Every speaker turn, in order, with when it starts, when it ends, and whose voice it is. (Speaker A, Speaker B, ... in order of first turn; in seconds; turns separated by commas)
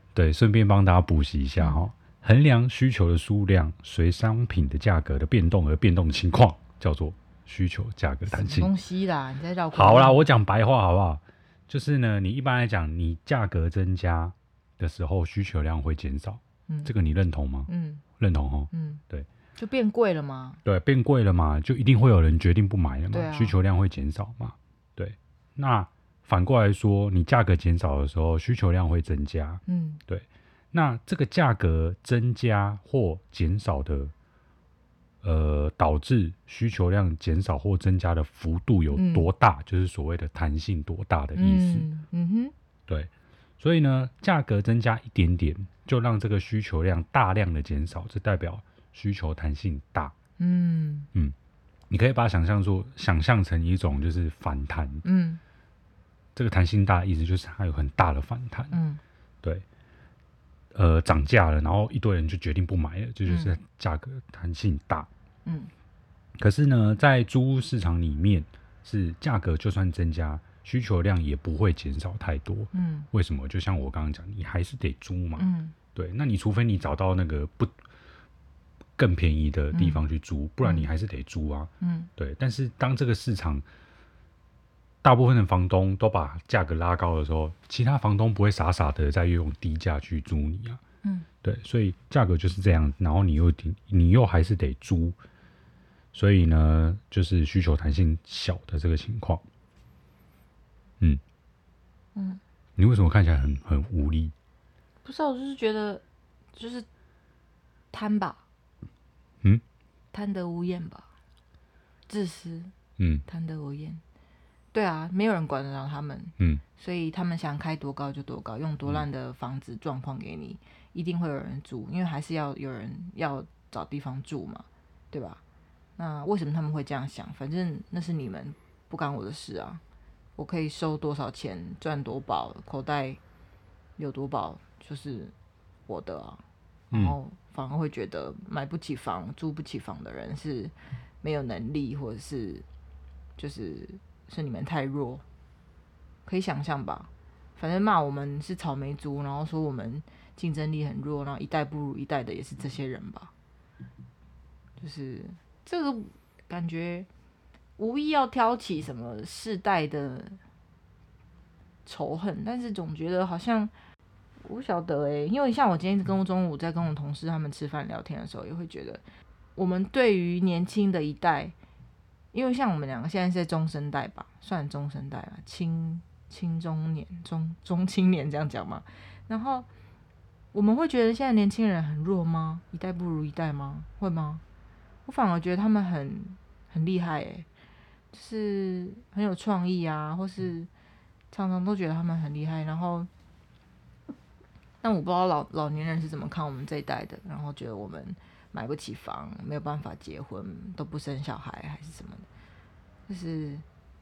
Speaker A: 0.1-8.7, Speaker B: 8.3-10.2, Speaker A: 9.7-19.3, Speaker B: 17.7-18.0, Speaker B: 18.7-19.0, Speaker B: 19.6-20.6, Speaker A: 20.6-34.1, Speaker B: 23.1-23.6, Speaker B: 29.7-30.0, Speaker A: 35.2-41.9, Speaker B: 38.9-39.3, Speaker B: 41.4-42.5, Speaker A: 42.9-50.1, Speaker B: 50.4-51.1, Speaker A: 51.9-55.0, Speaker B: 55.0-55.4, Speaker A: 56.3-58.7, Speaker B: 58.7-59.0, Speaker A: 60.7-65.1, Speaker B: 63.3-63.6, Speaker B: 65.5-65.7, Speaker A: 66.4-77.7, Speaker B: 72.7-73.1, Speaker B: 75.4-75.7, Speaker A: 79.0-83.6, Speaker B: 79.7-80.0, Speaker B: 80.6-80.9, Speaker B: 81.8-82.1, Speaker A: 85.0-90.8, Speaker A: 91.4-95.2, Speaker A: 96.1-99.4, Speaker B: 102.1-102.4, Speaker A: 102.8-104.3, Speaker B: 105.0-106.0, Speaker B: 106.5-106.8, Speaker B: 107.9-108.4, Speaker B: 110.1-111.1, Speaker B: 112.1-112.7, Speaker A: 113.0-113.2, Speaker B: 113.3-114.0, Speaker B: 114.7-125.4, Speaker B: 126.0-129.8, Speaker B: 130.4-133.2, Speaker B: 134.0-135.3, Speaker B: 135.9-136.4, Speaker A: 136.9-137.2, Speaker B: 136.9-142.6, Speaker B: 143.4-145.2, Speaker B: 146.2-153.3, Speaker B: 154.8-157.1, Speaker B: 157.8-160.4, Speaker B: 161.8-163.7, Speaker B: 164.4-169.0, Speaker B: 169.6-171.5, Speaker B: 172.3-179.7, Speaker B: 180.5-184.4, Speaker B: 185.1-187.4, Speaker B: 188.1-190.7, Speaker B: 191.3-193.1, Speaker B: 194.8-202.2, Speaker B: 203.1-203.6